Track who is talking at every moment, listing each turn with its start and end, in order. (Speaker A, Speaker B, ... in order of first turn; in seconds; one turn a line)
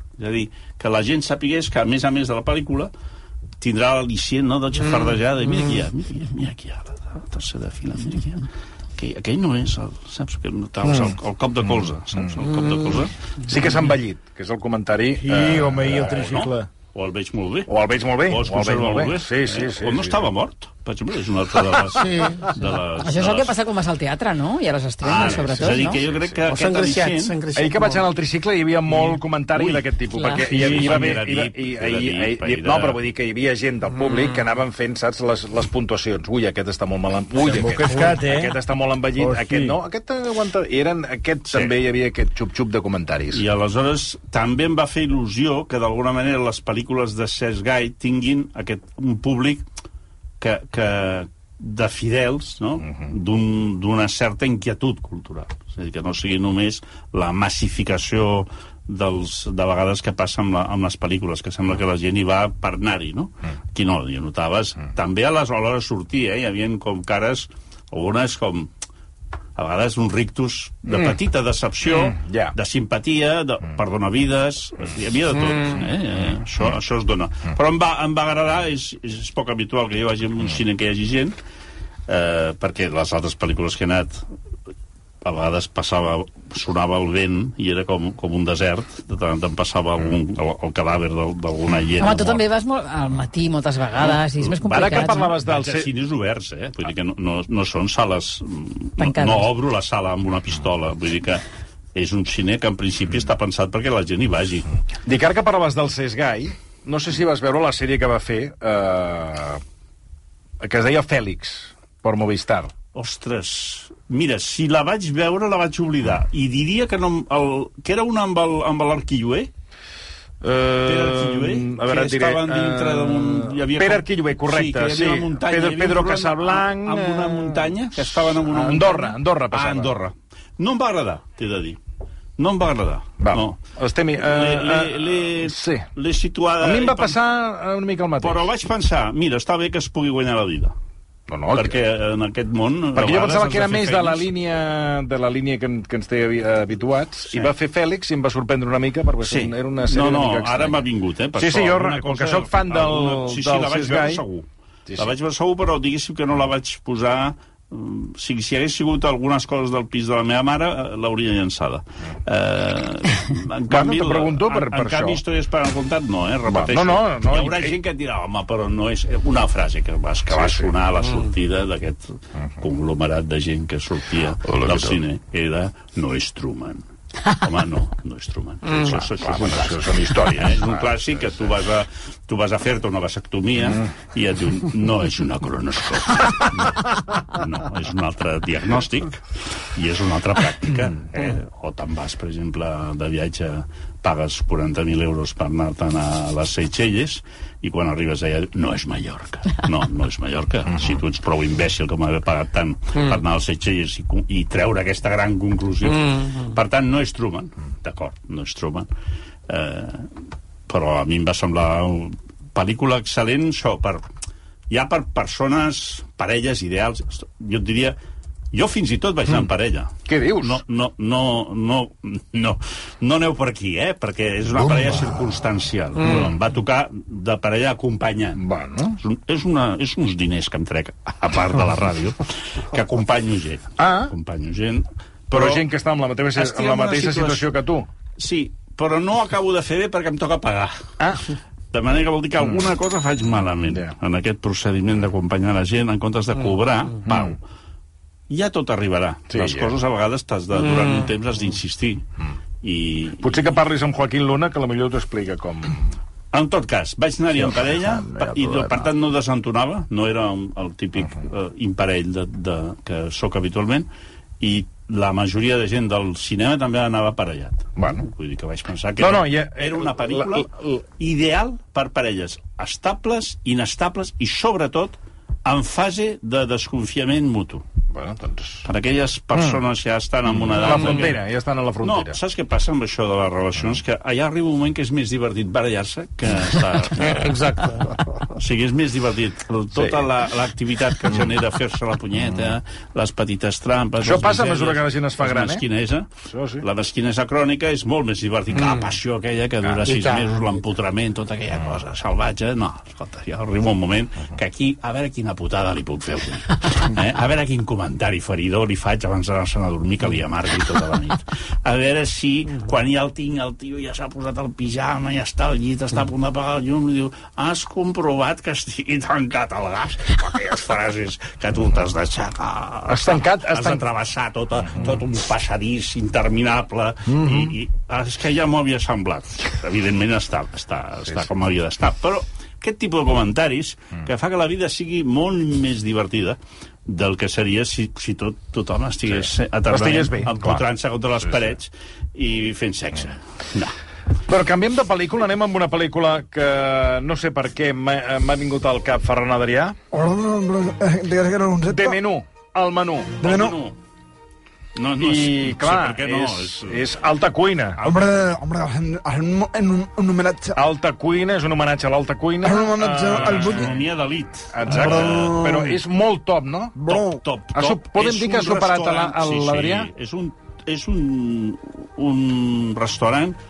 Speaker A: 0.2-2.9
Speaker A: 3.6-13.1
Speaker B: 13.4-16.6
Speaker C: 15.3-16.5
Speaker A: 15.9-17.7
Speaker B: 17.7-20.2
Speaker A: 18.2-23.5
Speaker D: 21.9-22.5
Speaker E: 23.0-26.0
Speaker A: 25.0-27.4
Speaker D: 26.5-28.1
Speaker B: 27.5-43.4
Speaker A: 29.0-33.0
Speaker E: 30.1-30.4
Speaker C: 37.4-38.6
Speaker C: 39.1-39.8
Speaker A: 43.3-49.6
Speaker A: 50.4-68.7
Speaker A: 69.5-81.3
Speaker B: 71.9-72.5
Speaker A: 82.1-84.2
Speaker A: 85.2-92.4
Speaker E: 92.0-95.3
Speaker B: 94.5-95.9
Speaker A: 95.4-101.4
Speaker E: 99.0-99.5
Speaker A: 101.9-104.7
Speaker B: 105.0-109.6
Speaker B: 110.6-112.7
Speaker A: 112.9-119.5
Speaker B: 120.4-129.9
Speaker A: 120.8-131.8
Speaker A: 132.4-133.6
Speaker B: 133.2-135.9
Speaker A: 134.2-137.2
Speaker B: 136.6-138.5
Speaker A: 138.2-140.7
Speaker B: 141.3-141.7
Speaker A: 141.5-144.2
Speaker B: 142.9-150.8
Speaker A: 149.2-208.9
Speaker B: 151.3-154.2
Speaker B: 163.7-165.2
Speaker B: 166.5-167.7
Speaker B: 170.3-170.7
Speaker B: 174.4-175.0
Speaker B: 178.9-180.9
Speaker A: 209.5-210.1
Speaker A: 210.7-214.1
Speaker A: 214.7-218.0
Speaker A: 218.5-228.4
Speaker B: 220.1-220.6
Speaker B: 228.4-229.0
Speaker A: 229.0-235.6
Speaker B: 233.8-234.1
Speaker B: 235.3-237.9
Speaker A: 236.3-237.5
Speaker A: 238.2-240.8
Speaker B: 241.0-241.2
Speaker A: 241.7-247.4
Speaker B: 247.1-247.3
Speaker A: 248.3-252.0
Speaker B: 249.3-249.7
Speaker A: 252.6-253.5
Speaker B: 253.2-255.9
Speaker A: 256.3-263.9
Speaker B: 257.4-258.9
Speaker A: 264.4-277.6
Speaker B: 267.8-268.1
Speaker B: 269.0-270.8
Speaker B: 277.9-278.6
Speaker A: 278.6-281.2
Speaker B: 279.3-279.6
Speaker B: 280.3-282.2
Speaker A: 281.8-287.3
Speaker D: 287.0-288.0
Speaker A: 288.3-296.1
Speaker B: 289.7-290.1
Speaker B: 294.0-295.6
Speaker B: 296.3-296.6
Speaker A: 296.6-343.7
Speaker D: 299.8-300.6
Speaker B: 322.9-323.8
Speaker B: 327.1-327.5
Speaker B: 339.7-340.6
Speaker B: 344.3-349.8
Speaker C: 349.9-352.0
Speaker B: 351.6-353.2
Speaker A: 353.2-353.8
Speaker C: 353.2-353.5
Speaker A: 354.8-356.9
Speaker B: 355.0-357.8
Speaker C: 357.8-360.5
Speaker B: 360.5-363.8
Speaker C: 362.4-363.7
Speaker A: 363.1-365.4
Speaker B: 364.5-366.9
Speaker C: 364.7-365.8
Speaker C: 366.8-367.2
Speaker A: 366.9-373.4
Speaker B: 367.5-369.9